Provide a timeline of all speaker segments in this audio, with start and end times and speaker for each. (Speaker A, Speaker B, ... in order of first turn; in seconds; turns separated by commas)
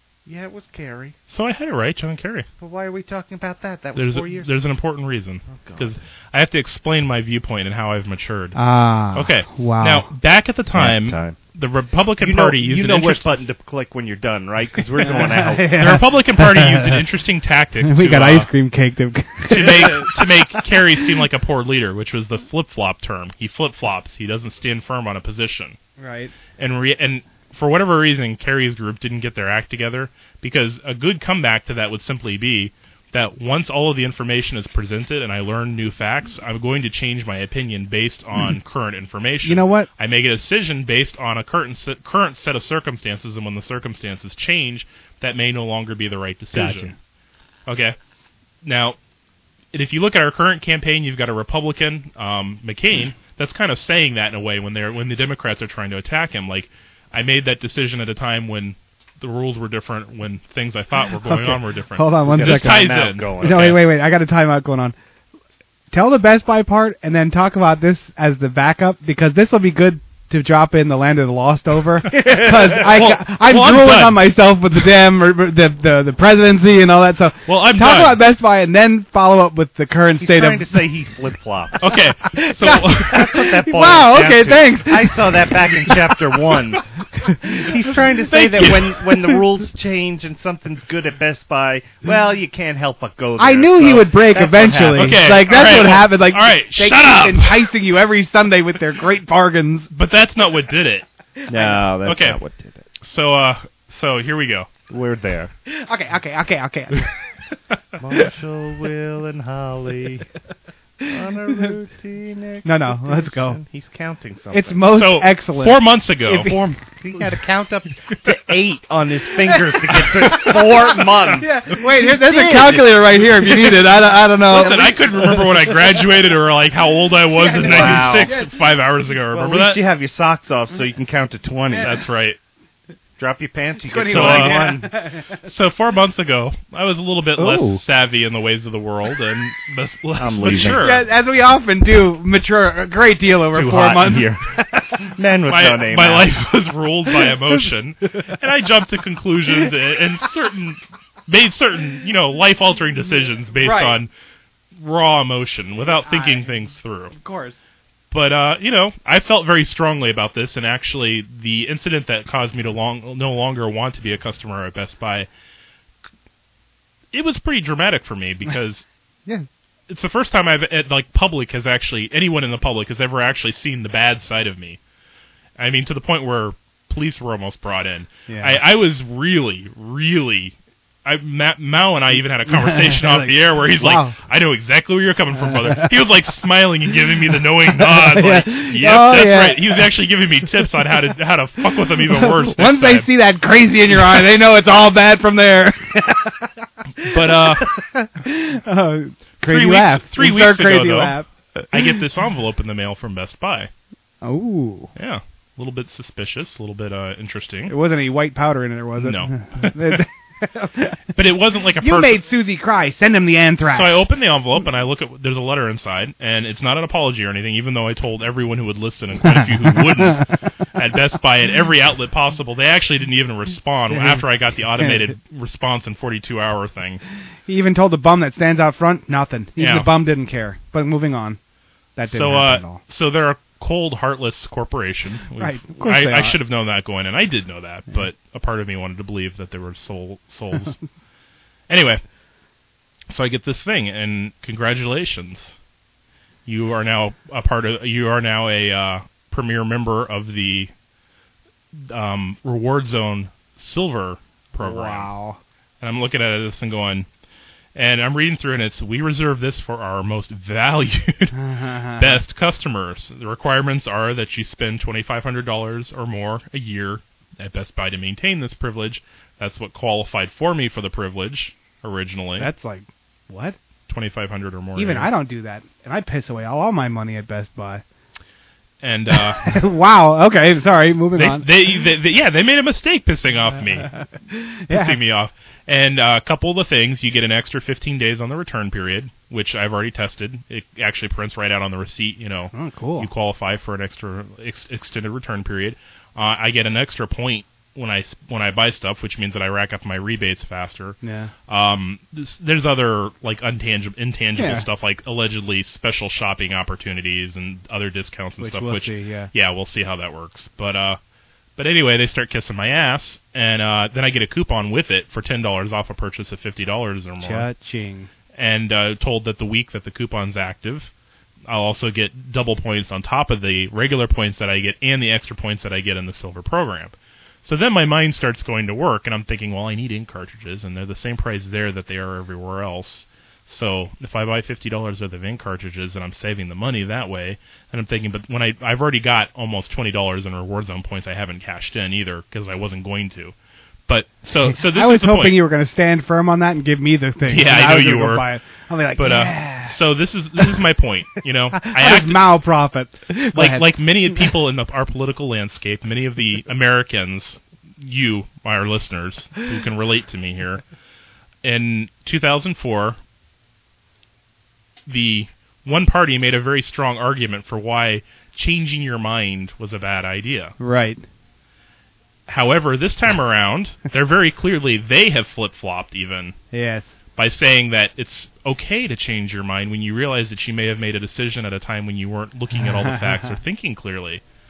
Speaker A: 0.2-1.1, Speaker B: 1.3-2.5, Speaker A: 2.6-4.5, Speaker B: 3.9-8.6, Speaker A: 5.5-5.9, Speaker C: 8.5-10.1, Speaker B: 9.1-13.4, Speaker A: 10.7-11.4, Speaker A: 12.2-15.8, Speaker C: 15.1-17.0, Speaker B: 15.7-18.5, Speaker C: 17.8-20.7, Speaker B: 19.4-25.8, Speaker C: 26.0-26.3, Speaker B: 26.6-46.9, Speaker C: 39.4-39.9, Speaker C: 46.5-46.9, Speaker B: 47.7-48.0, Speaker B: 48.6-49.0, Speaker B: 49.7-63.8, Speaker C: 61.3-64.9, Speaker A: 62.3-63.8, Speaker C: 65.9-80.7, Speaker B: 72.2-74.3, Speaker B: 77.5-78.2, Speaker A: 80.2-81.9, Speaker B: 81.8-83.3, Speaker C: 82.4-85.9, Speaker A: 82.6-86.8, Speaker C: 87.3-87.7, Speaker A: 87.5-95.4, Speaker B: 88.2-89.4, Speaker C: 93.4-99.9, Speaker B: 94.9-97.7, Speaker B: 99.9-101.1, Speaker A: 101.5-102.9, Speaker B: 102.0-102.4, Speaker B: 103.0-104.7, Speaker A: 104.9-105.5, Speaker C: 105.7-107.1, Speaker A: 108.0-110.2, Speaker A: 111.0-114.9, Speaker C: 112.6-113.6, Speaker C: 114.5-116.8, Speaker B: 114.9-116.7, Speaker A: 117.0-123.2, Speaker B: 120.3-120.6, Speaker C: 120.3-125.0, Speaker B: 123.5-123.7, Speaker B: 124.4-129.8, Speaker A: 124.5-125.5, Speaker C: 127.4-128.5, Speaker A: 127.6-128.4, Speaker A: 129.3-132.0, Speaker B: 131.8-132.4, Speaker A: 133.2-134.9, Speaker C: 133.8-135.4, Speaker B: 134.1-134.9, Speaker B: 135.4-141.1, Speaker A: 137.4-137.8, Speaker A: 140.2-140.8, Speaker C: 140.8-144.6, Speaker A: 143.6-146.3, Speaker B: 143.6-144.1, Speaker B: 145.5-154.1, Speaker C: 153.6-154.0, Speaker B: 154.8-157.1, Speaker C: 155.8-156.6, Speaker C: 157.1-157.6, Speaker B: 158.1-165.3, Speaker B: 167.1-168.8, Speaker B: 169.9-174.8, Speaker B: 175.6-193.1, Speaker C: 178.3-178.6, Speaker C: 182.4-184.2, Speaker C: 185.4-185.9, Speaker C: 187.6-189.9, Speaker C: 191.9-202.0, Speaker B: 193.9-194.2, Speaker B: 197.0-197.7, Speaker B: 199.4-203.7, Speaker C: 204.2-204.9, Speaker B: 204.9-207.7, Speaker C: 207.7-211.0, Speaker B: 209.0-210.0, Speaker B: 211.1-212.2, Speaker C: 211.8-214.1, Speaker B: 213.7-227.0, Speaker C: 219.3-220.3, Speaker C: 223.9-224.2, Speaker C: 224.8-225.1, Speaker C: 227.5-231.4, Speaker B: 229.6-229.9, Speaker C: 231.9-232.8, Speaker B: 232.1-240.8, Speaker C: 235.4-236.4, Speaker B: 241.7-242.0, Speaker B: 243.1-245.6, Speaker B: 246.4-250.7, Speaker B: 251.7-255.1, Speaker C: 254.6-255.4, Speaker B: 255.8-257.1, Speaker B: 257.7-261.3, Speaker C: 261.3-262.2, Speaker B: 262.0-272.5, Speaker C: 272.4-273.6, Speaker B: 273.9-275.1, Speaker C: 274.8-277.8, Speaker B: 278.8-279.6, Speaker C: 279.1-281.8, Speaker B: 281.1-284.0, Speaker C: 283.8-285.0, Speaker B: 284.7-311.0, Speaker C: 292.5-293.1, Speaker C: 301.0-301.3, Speaker C: 304.4-304.6, Speaker C: 308.4-309.3, Speaker B: 311.6-317.5, Speaker C: 317.2-318.1, Speaker B: 318.3-320.9, Speaker B: 321.5-343.3, Speaker B: 343.9-345.4, Speaker C: 344.4-349.8, Speaker B: 347.3-348.3, Speaker B: 348.9-352.4, Speaker C: 351.5-354.3, Speaker B: 353.3-360.6, Speaker B: 361.4-363.0, Speaker B: 364.9-370.6, Speaker C: 370.6-371.0, Speaker B: 372.3-376.4, Speaker C: 376.5-376.9, Speaker B: 377.1-384.2, Speaker C: 382.6-383.4